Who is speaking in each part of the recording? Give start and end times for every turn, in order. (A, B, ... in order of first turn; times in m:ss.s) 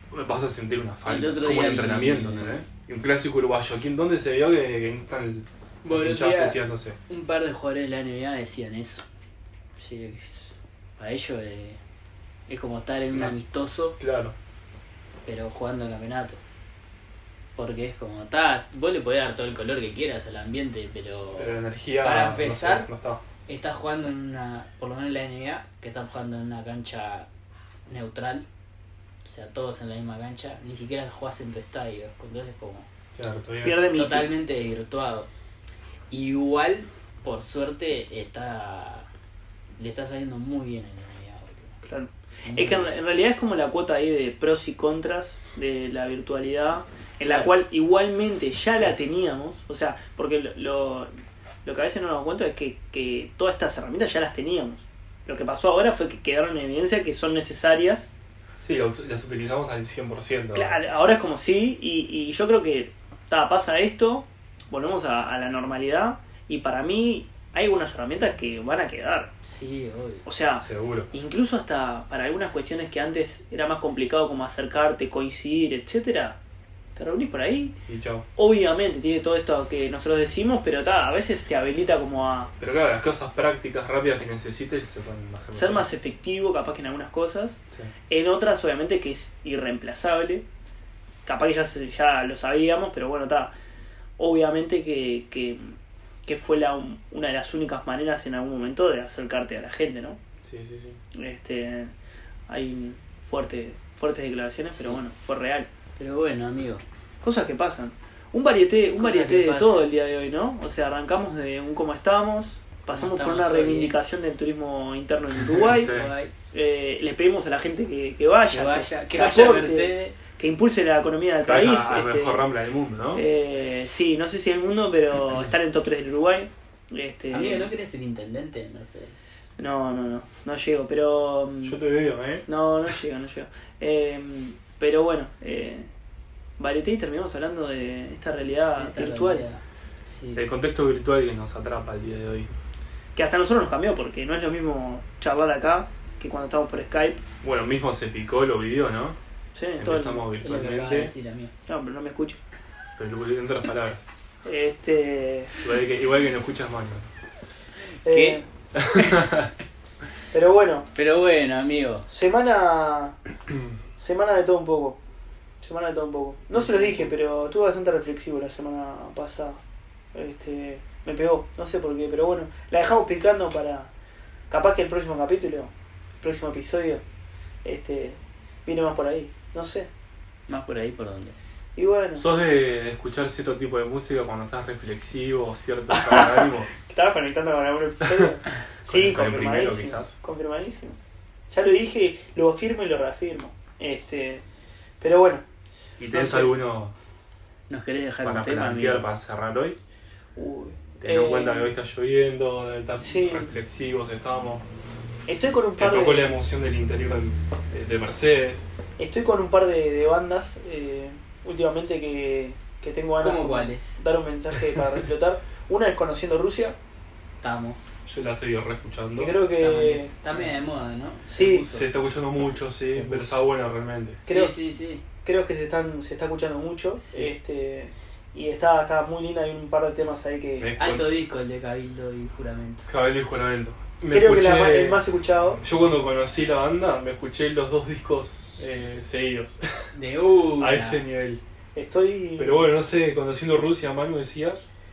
0:00.1-0:07.0 A
0:01.0-0:02.6 B
0:05.8-0:09.0 B
0:09.8-0:10.4 B
0:11.0-0:11.8 B
0:12.5-0:14.0 B
0:14.0-0:14.3 A
0:15.2-0:16.4 B
0:17.6-0:22.9 B
0:21.4-0:23.2 A
0:23.4-0:27.3 B
0:27.9-0:28.4 B
0:29.2-0:32.9 B
0:33.2-0:33.9 A
0:33.6-0:34.3 C
0:33.9-0:35.3 B
0:36.1-0:39.1 B
0:39.8-0:41.8 B
0:41.8-0:51.1 C
0:42.4-0:42.9 B
0:47.2-0:47.5 B
0:51.6-0:58.1 C
0:58.6-1:00.8 A
1:00.5-1:09.3 C
1:09.4-1:10.2 B
1:10.2-1:16.4 C
1:10.6-1:11.1 A
1:17.0-1:17.7 C
1:17.9-1:18.2 A
1:18.3-1:22.5 C
1:22.6-1:25.9 A
1:25.5-1:27.6 C
1:28.1-1:30.4 C
1:31.2-1:33.5 C
1:34.2-1:35.7 C
1:36.2-1:40.2 C
1:40.4-1:41.0 A
1:41.1-1:41.9 C
1:42.5-1:45.7 C
1:46.0-1:46.8 B
1:47.2-1:55.9 C
1:49.0-1:49.9 B
1:52.9-1:53.9 B
1:55.4-1:56.1 A
1:55.7-1:56.3 B
1:56.5-2:02.4 C
1:58.5-2:00.2 B
2:01.4-2:03.2 A
2:03.1-2:07.7 C
2:07.3-2:09.1 B
2:09.6-2:11.8 C
2:11.6-2:12.4 A
2:12.4-2:15.9 C
2:16.6-2:19.5 C
2:18.8-2:20.4 B
2:20.3-2:22.5 A
2:23.1-2:27.2 C
2:27.4-2:29.2 A
2:29.5-2:30.2 C
2:29.8-2:31.1 A
2:30.4-2:31.5 B
2:31.7-2:32.4 C
2:33.0-2:34.1 A
2:34.4-2:35.5 C
2:35.6-2:37.1 A
2:38.0-2:38.4 C
2:38.1-2:38.4 B
2:38.8-2:39.5 A
2:38.9-2:39.5 B
2:40.3-2:40.9 C
2:40.9-2:42.0 B
2:42.1-2:43.2 C
2:43.5-2:43.8 A
2:44.0-2:45.0 C
2:45.6-2:49.6 C
2:50.1-2:53.9 C
2:54.5-2:55.7 C
2:56.2-2:57.0 C
2:57.6-2:59.9 C
3:00.5-3:01.3 B
3:01.8-3:02.2 C
3:02.1-3:06.7 A
3:05.9-3:11.0 C
3:08.8-3:10.1 A
3:11.5-3:14.4 C
3:15.0-3:15.4 C
3:16.0-3:16.9 A
3:16.1-3:16.5 C
3:17.7-3:19.0 B
3:18.2-3:19.8 A
3:20.4-3:21.7 C
3:21.0-3:24.6 A
3:23.0-3:23.5 C
3:25.3-3:26.3 C
3:25.8-3:28.7 A
3:29.0-3:36.8 C
3:33.2-3:34.0 B
3:37.4-3:37.8 B
3:38.1-3:39.3 A
3:39.2-3:40.1 C
3:39.6-3:41.9 B
3:41.3-3:41.6 C
3:41.7-3:44.2 A
3:42.4-3:43.4 B
3:44.2-3:44.6 C
3:44.2-3:45.0 B
3:45.2-3:50.7 C
3:47.0-3:47.3 B
3:50.6-3:51.1 A
3:50.8-3:52.9 B
3:52.9-3:55.0 A
3:54.1-3:55.6 C
3:55.6-3:59.9 A
3:59.9-4:01.0 B
4:00.6-4:01.4 A
4:01.7-4:02.7 C
4:02.4-4:04.6 A